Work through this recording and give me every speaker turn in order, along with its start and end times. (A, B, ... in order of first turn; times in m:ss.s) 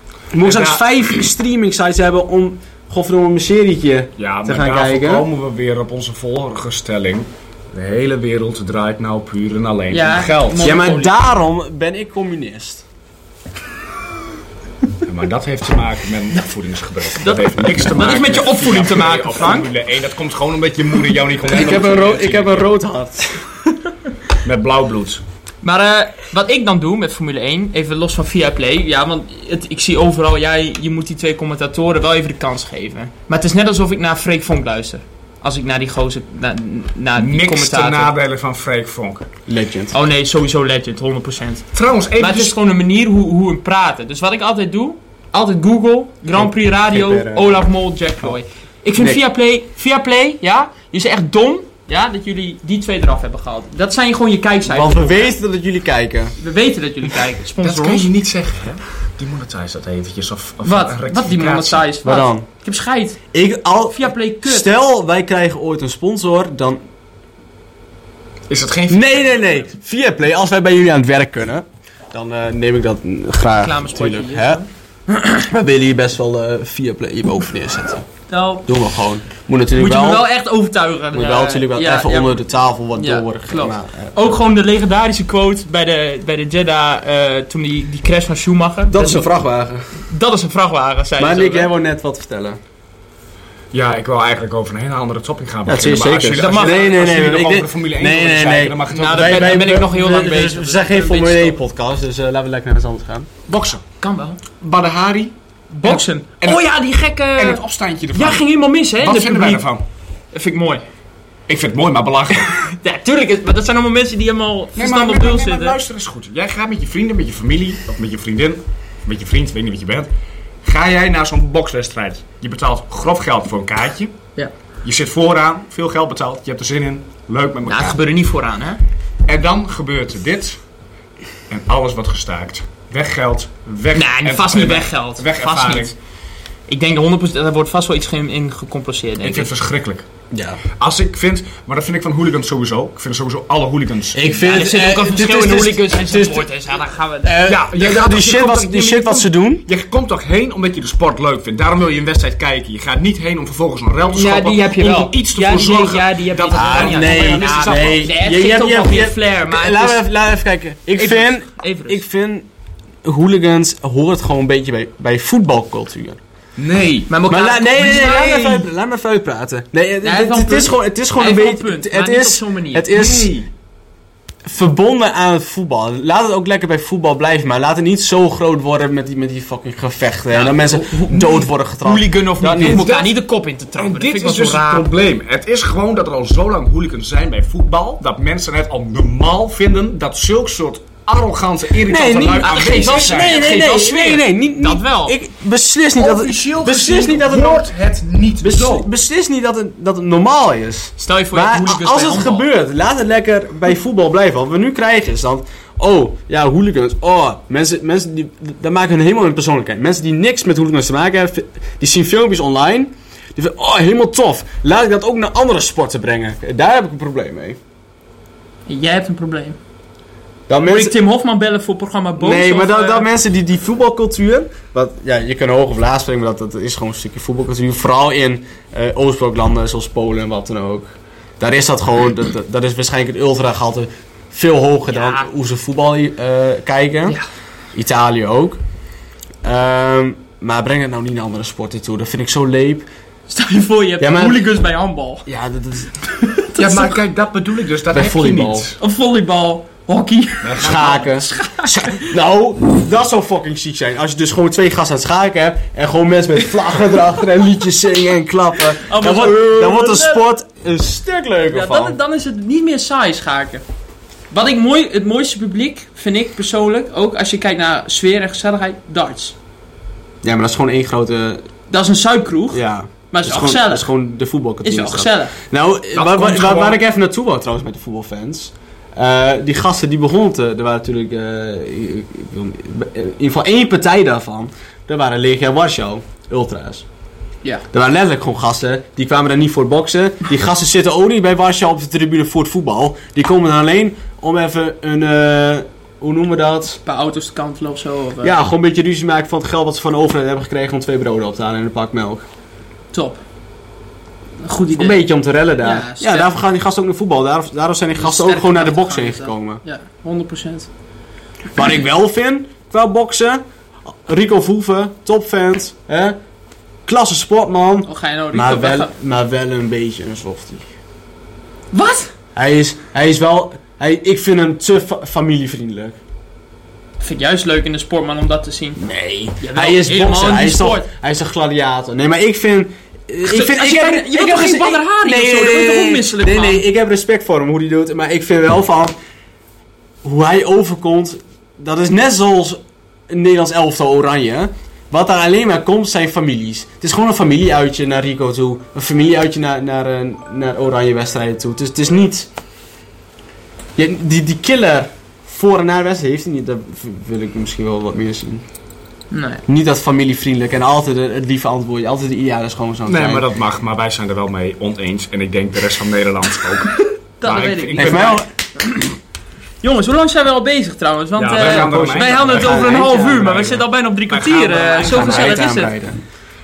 0:00.3-0:05.2 A
0:00.4-0:00.8 B
0:04.2-0:10.8 B
0:09.9-0:11.1 C
0:10.6-0:12.8 A
0:15.0-0:22.6 B
0:17.2-0:19.7 C
0:21.5-0:23.5 A
0:24.4-0:25.2 B
0:25.6-0:38.1 C
0:37.2-0:39.2 B
0:39.5-0:39.9 A
0:39.9-0:55.3 C
0:41.7-0:42.6 B
0:46.3-0:47.6 A
0:54.6-0:56.4 A
0:56.4-0:58.1 C
0:57.6-1:01.8 B
1:00.6-1:03.2 C
1:02.0-1:02.4 A
1:03.3-1:06.8 A
1:03.9-1:04.7 C
1:08.5-1:09.7 B
1:08.9-1:18.0 A
1:13.6-1:14.7 C
1:18.3-1:18.7 C
1:18.6-1:20.3 A
1:19.7-1:29.2 C
1:21.1-1:24.4 A
1:28.9-1:29.9 A
1:29.9-1:31.7 C
1:31.2-1:32.6 A
1:33.7-1:39.6 B
1:35.6-1:43.3 A
1:36.3-1:36.8 C
1:38.9-1:41.6 C
1:43.5-1:43.8 B
1:43.8-1:44.4 C
1:44.6-1:46.7 B
1:45.7-1:47.6 C
1:47.3-1:48.4 B
1:48.1-1:49.6 C
1:49.0-1:49.8 B
1:50.3-1:50.8 C
1:51.5-1:52.5 B
1:52.5-1:55.8 C
1:54.8-2:00.1 B
2:00.6-2:04.1 B
2:04.8-2:08.0 B
2:07.6-2:08.8 C
2:09.2-2:10.6 B
2:11.5-2:15.9 B
2:13.9-2:15.9 C
2:16.7-2:19.5 C
2:19.2-2:20.0 B
2:20.3-2:20.6 A
2:20.8-2:24.2 B
2:24.1-2:26.5 A
2:24.4-2:27.4 C
2:27.2-2:29.6 A
2:27.4-2:38.0 B
2:34.1-2:40.0 C
2:36.5-2:42.5 A
2:40.9-2:42.0 C
2:43.0-2:46.2 A
2:46.6-2:47.1 B
2:47.1-2:48.6 C
2:47.3-2:53.3 A
2:50.0-2:52.9 C
2:52.9-2:53.5 B
2:54.4-3:02.9 A
3:00.3-3:04.9 C
3:01.8-3:03.1 B
3:03.8-3:13.4 B
3:11.8-3:17.7 A
3:12.4-3:15.1 C
3:16.0-3:18.9 B
3:18.4-3:37.6 A
3:21.0-3:22.5 C
3:38.7-3:39.6 C
3:40.5-3:41.0 A
3:40.6-3:43.1 C
3:42.2-3:57.2 A
3:54.9-3:55.3 C
3:57.7-3:58.6 A
3:59.4-4:02.8 A
4:03.3-4:05.3 C
4:04.0-4:04.4 A
4:05.2-4:06.0 A
4:06.1-4:06.9 C
4:06.6-4:08.8 B
4:07.9-4:08.7 A
4:08.8-4:12.1 C
4:10.4-4:11.2 B
4:10.6-4:22.0 A
4:18.8-4:20.2 C
4:21.5-4:23.6 C
4:24.3-4:29.3 C
4:30.2-4:31.5 A
4:31.7-4:33.9 C
4:32.5-4:46.8 A
4:34.6-4:35.4 C
4:35.9-4:36.8 B
4:47.7-4:56.8 A
4:56.8-4:58.4 C
4:58.2-5:02.2 A
5:02.9-5:03.2 C
5:04.4-5:05.0 C
5:04.7-5:09.6 A
5:05.6-5:06.3 C
5:08.0-5:10.7 C
5:11.5-5:16.2 A
5:16.8-5:20.6 A
5:17.8-5:18.9 C
5:21.7-5:22.1 C
5:22.3-5:26.0 A
5:27.0-5:28.8 C
5:28.8-5:38.9 A
5:29.4-5:30.8 C
5:33.2-5:36.6 C
5:40.0-5:52.3 A
5:53.8-5:58.4 A
5:59.1-5:59.4 C
5:59.5-6:03.2 A
6:02.9-6:08.2 B
6:06.9-6:08.2 C
6:07.8-6:08.9 A
6:09.6-6:15.7 C
6:11.2-6:12.7 B
6:11.4-6:13.6 A
6:14.1-6:15.5 B
6:14.8-6:16.0 A